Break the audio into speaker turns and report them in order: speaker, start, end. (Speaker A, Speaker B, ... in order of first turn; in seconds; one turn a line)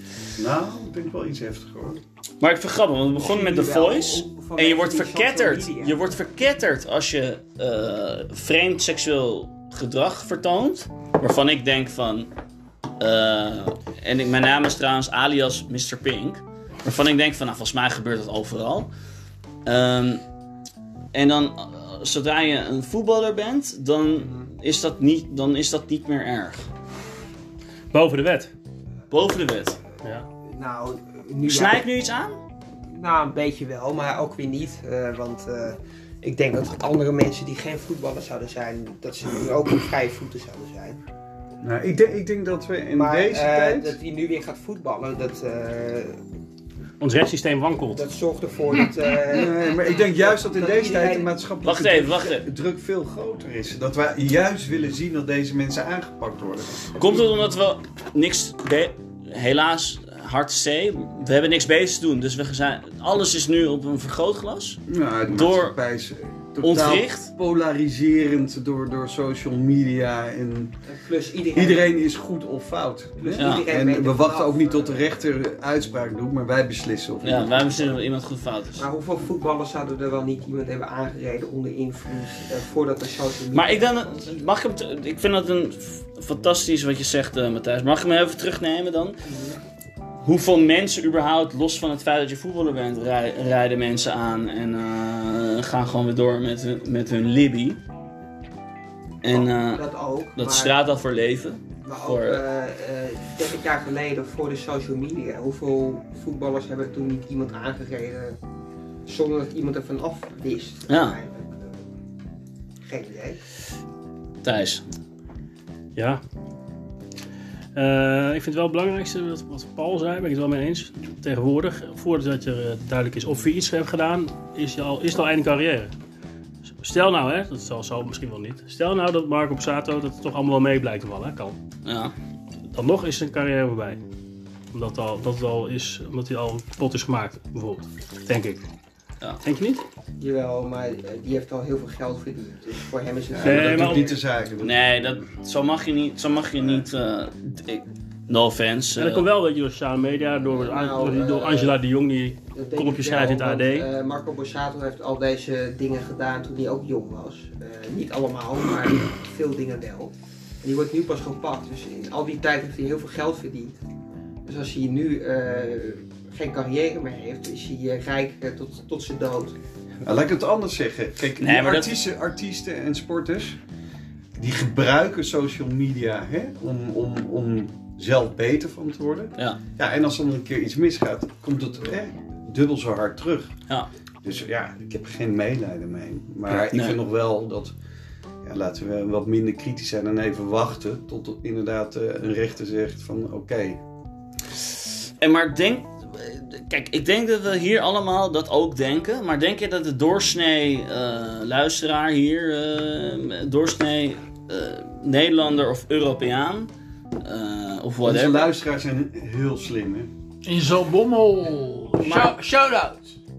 Speaker A: 0.4-2.0
Speaker B: 2.4-12.3
Speaker C: 3.2-6.2
Speaker B: 13.0-18.9
Speaker B: 19.6-20.2
Speaker B: 21.1-26.7
Speaker D: 27.9-28.5
Speaker B: 29.1-29.8
Speaker C: 30.5-31.9
Speaker B: 31.4-32.4
Speaker C: 32.9-41.0
Speaker A: 41.6-44.0
Speaker C: 42.9-46.2
Speaker D: 47.0-48.0
Speaker C: 47.9-51.3
Speaker A: 49.3-56.9
Speaker B: 51.6-52.5
Speaker B: 57.0-65.7
Speaker A: 64.9-70.7
Speaker B: 66.6-67.3
Speaker C: 70.8-71.9
Speaker A: 71.5-77.8
Speaker C: 73.2-75.0
Speaker B: 73.4-73.7
Speaker B: 77.2-78.8
Speaker C: 78.8-84.3
Speaker B: 83.5-89.2
Speaker C: 89.2-89.6
Speaker B: 90.2-97.8
Speaker B: 99.2-99.8
Speaker C: 99.3-100.8
Speaker B: 100.4-102.4
Speaker C: 101.8-108.4
Speaker C: 109.1-111.8
Speaker B: 110.9-111.2
Speaker C: 112.9-113.4
Speaker B: 114.4-114.8
Speaker D: 116.0-116.2
Speaker D: 117.8-125.9
Speaker D: 126.8-131.6
Speaker B: 131.8-132.1
Speaker D: 132.7-134.0
Speaker D: 134.7-138.6
Speaker D: 139.4-139.8
Speaker C: 140.2-144.2
Speaker A: 143.3-144.8
Speaker D: 143.4-144.1
Speaker B: 144.6-149.3
Speaker A: 146.6-146.9
Speaker D: 149.0-153.9
Speaker C: 150.5-151.8
Speaker C: 152.5-163.8
Speaker C: 164.4-169.6
Speaker A: 170.0-173.6
Speaker B: 171.4-172.0
Speaker A: 174.4-183.5
Speaker A: 184.2-187.7
Speaker B: 186.5-187.0
Speaker A: 188.4-193.8
Speaker B: 195.2-206.7
Speaker B: 207.2-208.5
Speaker A: 208.0-210.1
Speaker E: 210.4-213.1
Speaker B: 212.0-212.4